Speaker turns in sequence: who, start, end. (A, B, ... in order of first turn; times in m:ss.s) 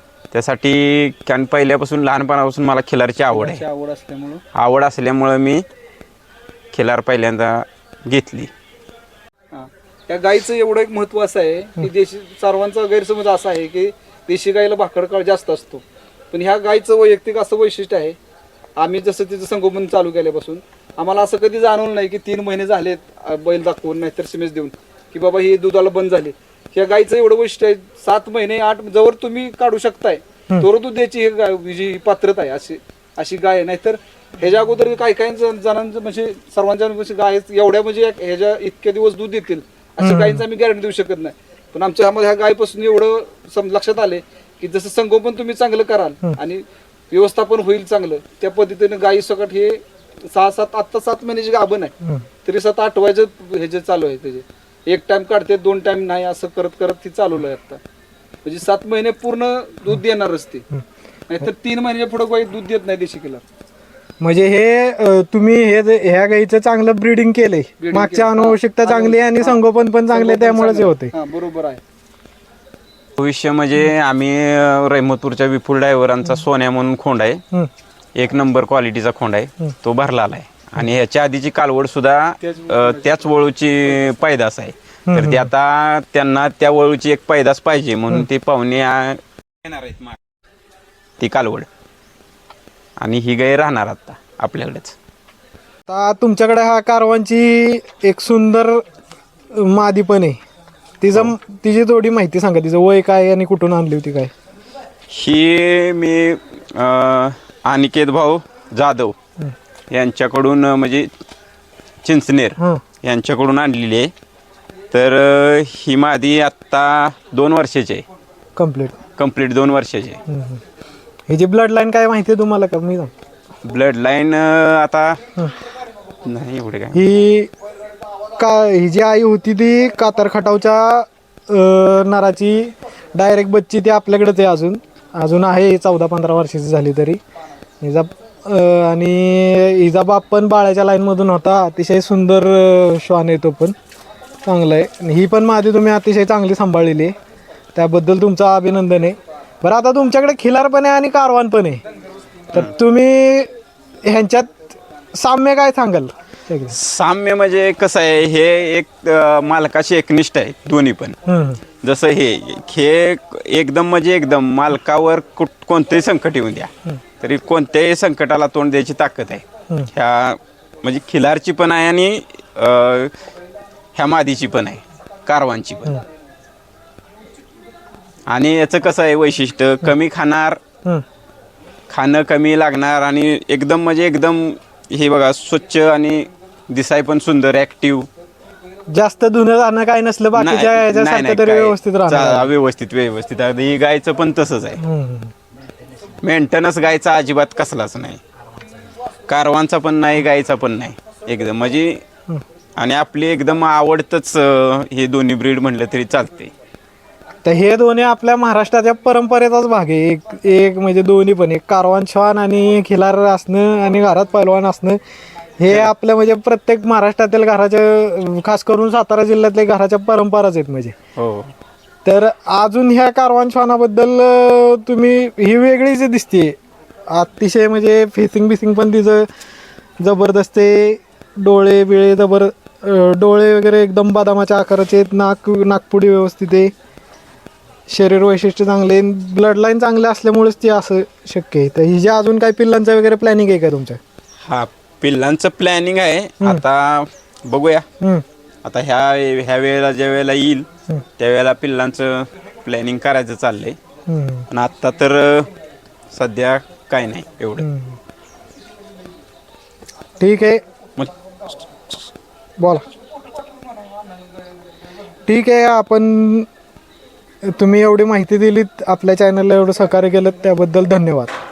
0:00.3-0:03.6 A
0:03.3-0:04.4 B
0:04.5-0:05.6 A
0:06.7-0:08.5 A
0:09.5-0:18.2 B
0:18.8-0:51.9 B
0:40.0-0:40.4 C
0:52.4-0:57.8 B
0:58.4-1:00.7 B
1:01.3-1:03.4 B
1:04.2-1:11.1 C
1:07.8-1:11.8 B
1:13.2-1:17.4 A
1:18.2-1:30.2 A
1:22.4-1:24.4 B
1:25.1-1:25.5 C
1:31.2-1:31.7 A
1:33.0-1:34.9 A
1:35.9-1:38.8 C
1:39.5-1:40.4 C
1:41.0-1:44.3 C
1:45.1-1:49.2 A
1:49.9-1:51.1 A
1:52.0-1:54.1 A
1:54.9-1:58.0 A
1:58.6-1:59.0 C
1:59.2-2:00.2 A
2:00.3-2:00.6 C
2:01.3-2:03.1 C
2:03.6-2:05.2 A
2:06.2-2:07.0 A
2:06.9-2:07.5 C
2:08.4-2:17.2 C
2:17.8-2:23.8 C
2:24.4-2:27.2 C
2:27.8-2:31.8 C
2:32.5-2:33.5 C
2:34.0-2:36.8 C
2:36.7-2:41.2 A
2:41.2-2:41.6 C
2:41.8-2:53.1 A
2:53.9-2:56.0 A
2:58.3-3:00.6 A
3:01.9-3:08.1 A
3:08.9-3:12.5 C
3:10.4-3:14.8 A
3:14.8-3:15.3 C
3:16.2-3:18.2 A
3:19.3-3:22.0 A
3:22.8-3:26.5 A
3:27.4-3:35.0 C
3:35.6-3:40.9 C
3:41.2-3:41.5 A
3:42.0-3:46.6 C
3:47.1-3:49.3 C
3:50.0-3:56.7 C
3:57.9-4:04.0 C
4:04.4-4:07.9 A
4:08.6-4:13.8 A
4:14.1-4:14.5 C
4:14.5-4:15.5 A
4:16.1-4:17.7 A
4:17.6-4:18.0 C
4:20.2-4:20.6 C
4:22.6-4:22.8 C
4:23.5-4:24.0 B
4:25.2-4:26.5 C
4:27.4-4:31.3 C